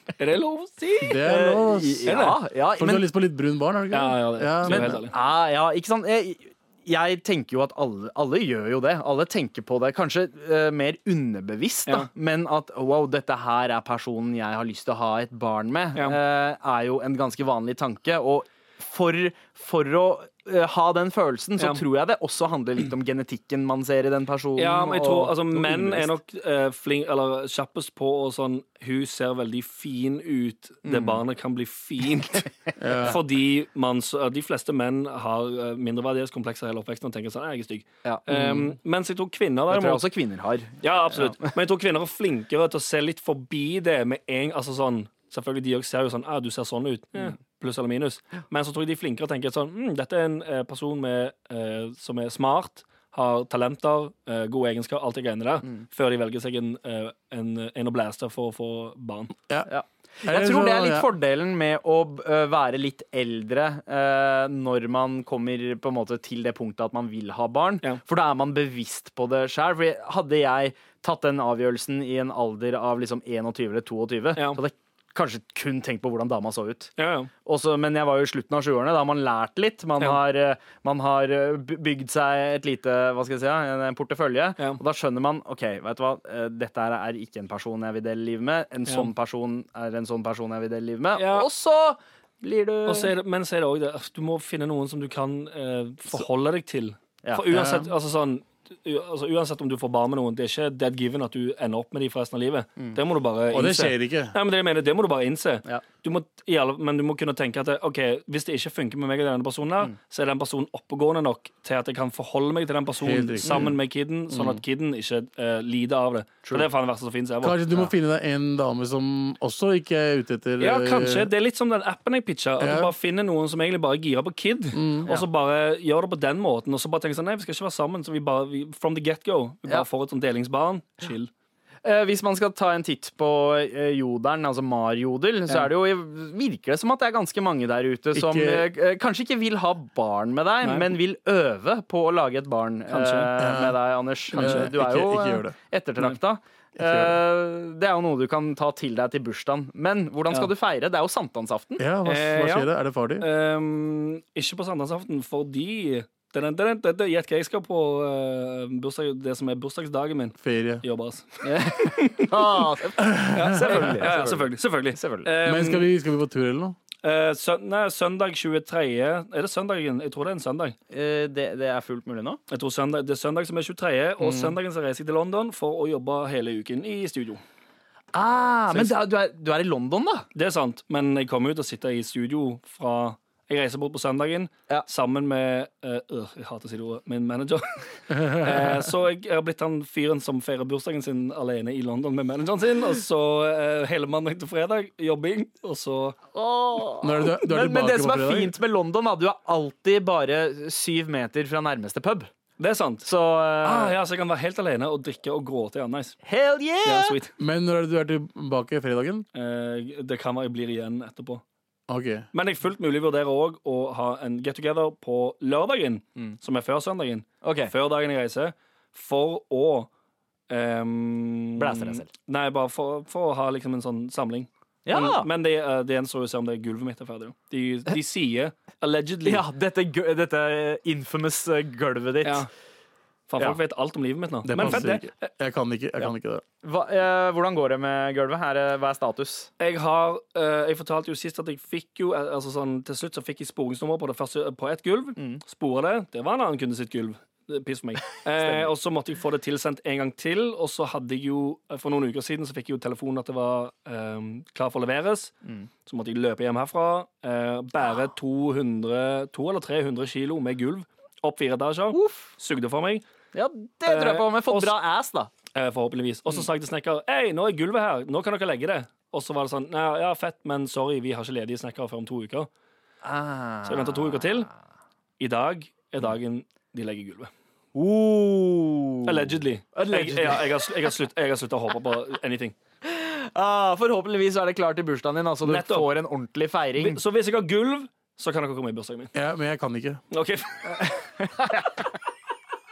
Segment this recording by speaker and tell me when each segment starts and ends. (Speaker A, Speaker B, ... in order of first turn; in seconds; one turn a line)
Speaker A: 0.2-1.2
Speaker B: 1.0-2.1
Speaker C: 1.2-3.1
Speaker A: 2.1-2.4
Speaker B: 2.8-5.0
Speaker A: 3.9-5.1
Speaker C: 4.7-26.1
Speaker A: 21.6-21.8
Speaker A: 24.6-40.0
Speaker C: 30.9-31.2
Speaker B: 32.8-33.2
Speaker C: 38.0-38.7
Speaker C: 39.7-41.5
Speaker A: 40.8-59.3
Speaker C: 59.7-76.9
Speaker B: 60.2-61.1
Speaker A: 77.0-77.3
Speaker C: 77.5-93.1
Speaker A: 91.2-91.5
Speaker A: 92.9-117.7
Speaker B: 97.5-97.9
Speaker B: 103.5-104.3
Speaker B: 113.0-113.8
Speaker C: 113.5-113.7
Speaker B: 114.3-114.6
Speaker B: 117.4-121.3
Speaker A: 120.6-131.3
Speaker B: 122.6-122.9
Speaker B: 124.7-125.1
Speaker C: 131.8-151.8
Speaker B: 138.1-138.7
Speaker A: 140.6-140.9
Speaker A: 142.9-143.3
Speaker B: 143.4-143.8
Speaker A: 144.3-144.7
Speaker B: 144.3-145.6
Speaker B: 146.8-147.2
Speaker B: 151.8-153.3
Speaker A: 152.1-162.7
Speaker B: 160.4-160.8
Speaker C: 161.4-165.3
Speaker B: 163.0-163.6
Speaker A: 163.3-165.9
Speaker B: 165.4-166.8
Speaker A: 167.0-170.8
Speaker C: 170.9-172.4
Speaker A: 172.5-177.4
Speaker C: 174.2-174.5
Speaker C: 178.1-180.3
Speaker A: 180.3-196.2
Speaker B: 188.1-188.6
Speaker C: 196.3-202.3
Speaker B: 197.0-198.6
Speaker A: 202.6-203.1
Speaker C: 203.0-204.0
Speaker A: 203.6-206.2
Speaker C: 206.2-207.2
Speaker A: 206.8-207.3
Speaker B: 207.4-209.2
Speaker A: 209.3-211.4
Speaker B: 211.9-212.3
Speaker A: 212.3-219.9
Speaker C: 217.4-217.7
Speaker A: 220.5-229.4
Speaker C: 221.6-222.1
Speaker C: 224.9-225.3
Speaker C: 229.2-232.5
Speaker A: 232.2-232.5
Speaker A: 233.3-235.3
Speaker B: 234.4-236.4
Speaker C: 234.6-234.8
Speaker C: 236.6-239.5
Speaker A: 239.6-255.3
Speaker C: 248.3-248.7
Speaker A: 255.9-263.0
Speaker C: 261.9-262.3
Speaker C: 263.3-265.3
Speaker A: 263.9-264.8
Speaker A: 265.5-272.5
Speaker C: 273.0-274.3
Speaker A: 273.6-274.5
Speaker A: 275.2-277.3
Speaker C: 277.8-280.6
Speaker A: 279.1-282.6
Speaker C: 282.9-287.0
Speaker A: 285.4-285.9
Speaker A: 286.8-289.1
Speaker B: 289.1-290.0
Speaker A: 290.1-290.9
Speaker C: 290.8-291.8